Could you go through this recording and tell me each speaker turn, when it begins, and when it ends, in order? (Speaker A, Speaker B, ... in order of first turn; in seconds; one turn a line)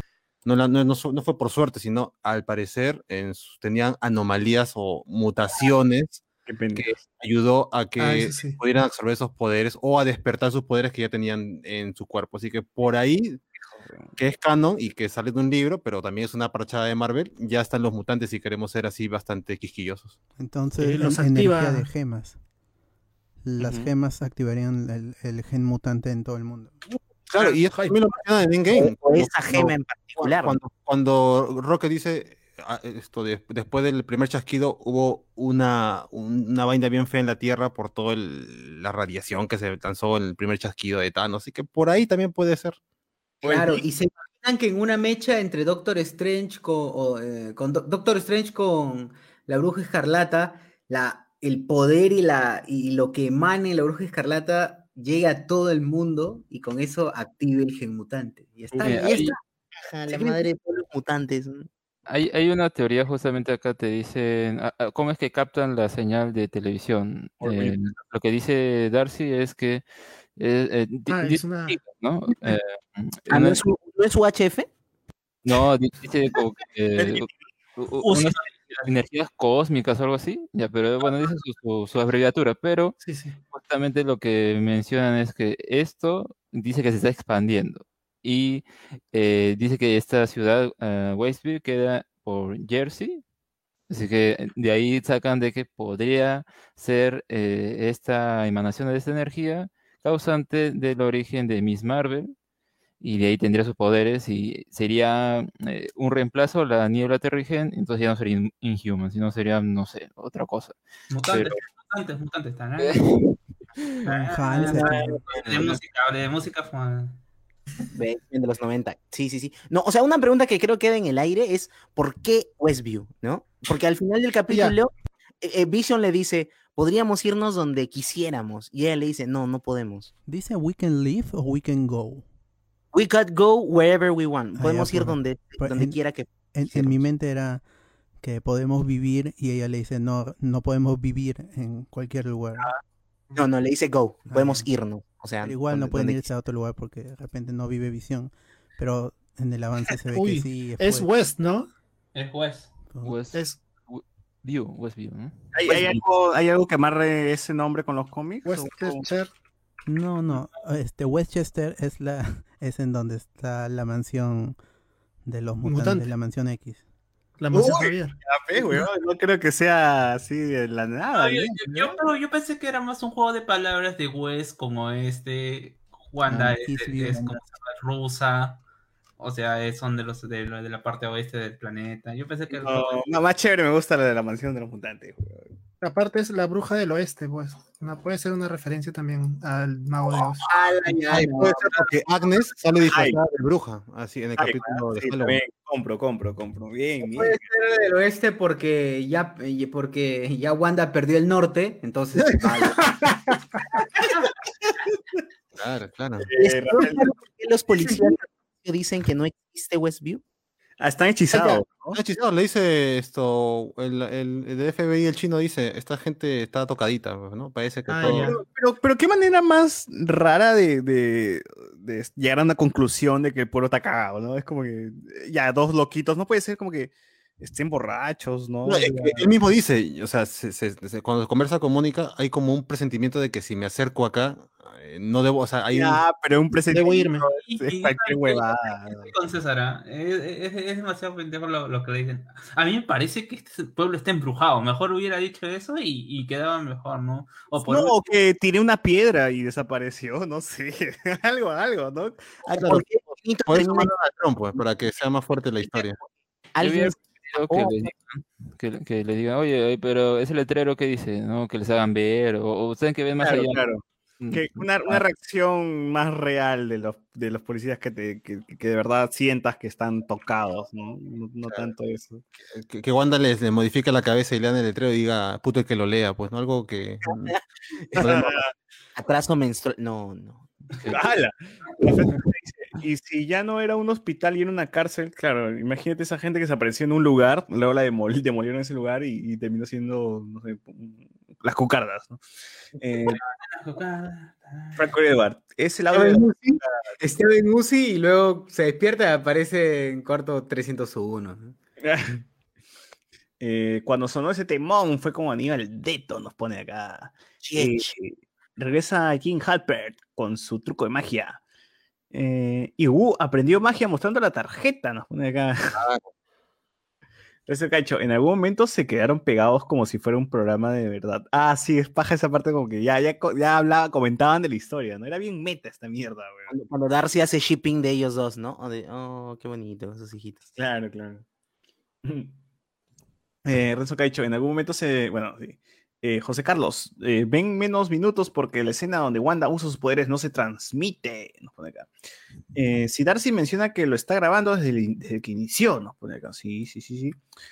Speaker A: 0.4-6.2
Speaker B: 6.5-7.0
Speaker A: 6.8-13.4
Speaker C: 8.0-8.6
Speaker B: 13.6-14.1
Speaker A: 14.2-20.2
Speaker D: 20.4-22.4
Speaker C: 20.8-21.9
Speaker D: 23.4-26.8
Speaker B: 23.6-23.9
Speaker A: 27.3-42.8
Speaker C: 27.7-28.0
Speaker E: 28.7-30.6
Speaker B: 43.4-43.8
Speaker F: 43.4-60.5
Speaker B: 58.7-59.0
Speaker G: 58.8-59.4
Speaker E: 58.9-59.3
Speaker E: 60.1-61.7
Speaker G: 62.1-69.8
Speaker B: 67.4-67.7
Speaker G: 70.3-73.6
Speaker C: 71.1-71.8
Speaker E: 73.3-74.7
Speaker G: 75.4-83.0
Speaker B: 77.0-77.5
Speaker H: 78.1-78.5
Speaker C: 83.0-83.4
Speaker G: 83.5-93.2
Speaker G: 93.9-102.3
Speaker G: 103.0-111.6
Speaker H: 111.1-113.0
Speaker G: 112.8-113.3
Speaker H: 114.0-117.2
Speaker D: 114.0-115.2
Speaker E: 114.7-115.1
Speaker E: 117.9-130.1
Speaker C: 124.5-124.8
Speaker D: 130.3-132.2
Speaker E: 132.9-137.0
Speaker D: 134.6-136.0
Speaker D: 136.5-137.6
Speaker D: 138.2-142.7
Speaker E: 143.3-146.3
Speaker D: 144.3-144.7
Speaker D: 145.4-151.1
Speaker C: 150.1-151.7
Speaker H: 152.1-152.7
Speaker D: 152.9-153.2
Speaker G: 153.0-155.3
Speaker C: 153.3-153.6
Speaker B: 155.5-159.0
Speaker C: 158.4-159.3
Speaker D: 159.9-164.6
Speaker D: 165.2-166.8
Speaker C: 165.6-166.1
Speaker C: 167.4-168.9
Speaker B: 167.5-171.9
Speaker H: 171.1-178.6
Speaker D: 176.2-177.4
Speaker H: 179.2-183.0
Speaker B: 182.5-185.5
Speaker C: 185.8-190.5
Speaker F: 190.5-191.7
Speaker A: 191.1-195.4
Speaker B: 192.8-193.2
Speaker B: 194.4-197.4
Speaker F: 197.0-203.2
Speaker C: 202.8-203.1
Speaker A: 205.6-206.3
Speaker B: 206.2-207.0
Speaker E: 206.4-210.2
Speaker B: 210.8-212.0
Speaker C: 211.3-211.6
Speaker A: 211.9-218.3
Speaker C: 217.9-218.4
Speaker B: 218.0-229.3
Speaker A: 228.6-236.0
Speaker B: 235.7-239.1
Speaker C: 236.7-237.3
Speaker H: 237.4-248.1
Speaker B: 247.6-252.8
Speaker E: 252.4-253.9
Speaker A: 252.6-256.0
Speaker E: 256.5-257.9
Speaker G: 256.6-263.7
Speaker B: 263.2-272.2
Speaker G: 264.2-265.0
Speaker A: 272.5-277.3
Speaker B: 277.9-278.5
Speaker A: 278.0-278.3
Speaker E: 278.9-280.5
Speaker G: 280.8-281.0
Speaker B: 280.9-292.2
Speaker B: 292.8-293.2
Speaker H: 293.1-294.9
Speaker B: 294.8-296.9
Speaker F: 295.9-301.6
Speaker B: 301.8-302.2
Speaker B: 303.4-311.4
Speaker E: 307.4-307.9
Speaker B: 312.1-315.8
Speaker A: 315.8-316.0
Speaker B: 317.5-326.5
Speaker E: 326.5-330.5
Speaker B: 330.6-331.2
Speaker B: 332.0-332.3
Speaker B: 333.4-341.9
Speaker B: 342.5-347.2